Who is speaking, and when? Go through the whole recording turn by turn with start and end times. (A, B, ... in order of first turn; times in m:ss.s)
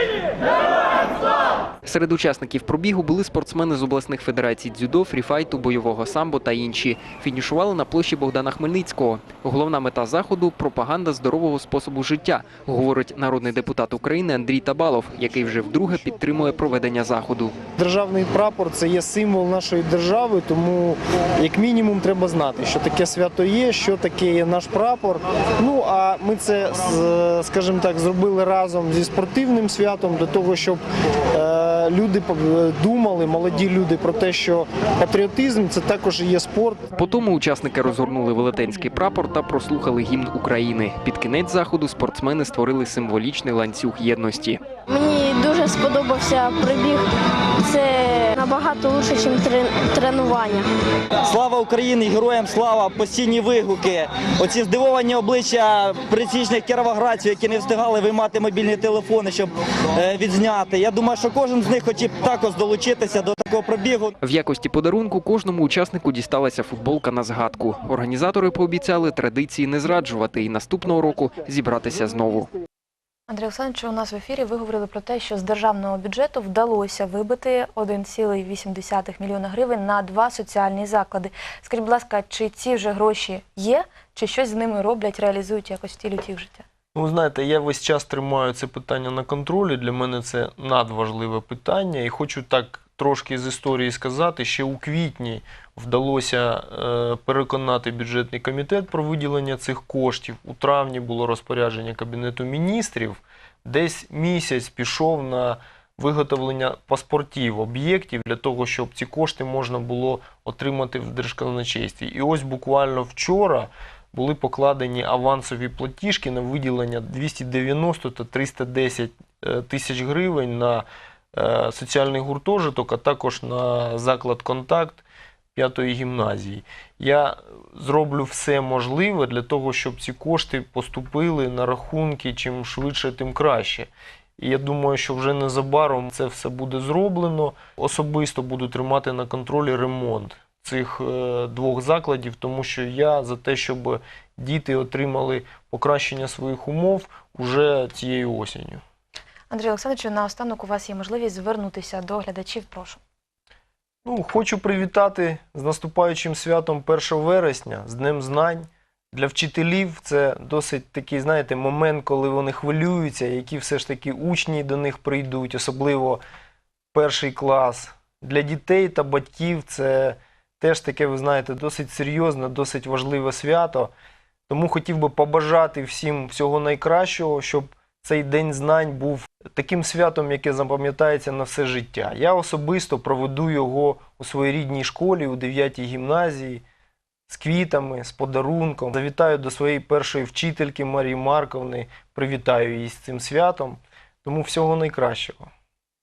0:01.9-0:17.5 A
0:17.8-0:36.9 B
0:37.0-0:44.6 A
0:44.9-0:47.0 C
0:47.6-0:50.6 C
0:51.4-0:59.4 D
1:00.0-1:04.1 D
1:04.2-1:12.5 A
1:13.3-1:26.7 E
1:26.9-2:28.8 B
2:29.5-2:33.0 E
2:34.0-2:46.2 B
2:46.9-2:53.9 B
2:54.5-3:06.6 B
3:07.3-3:15.5 B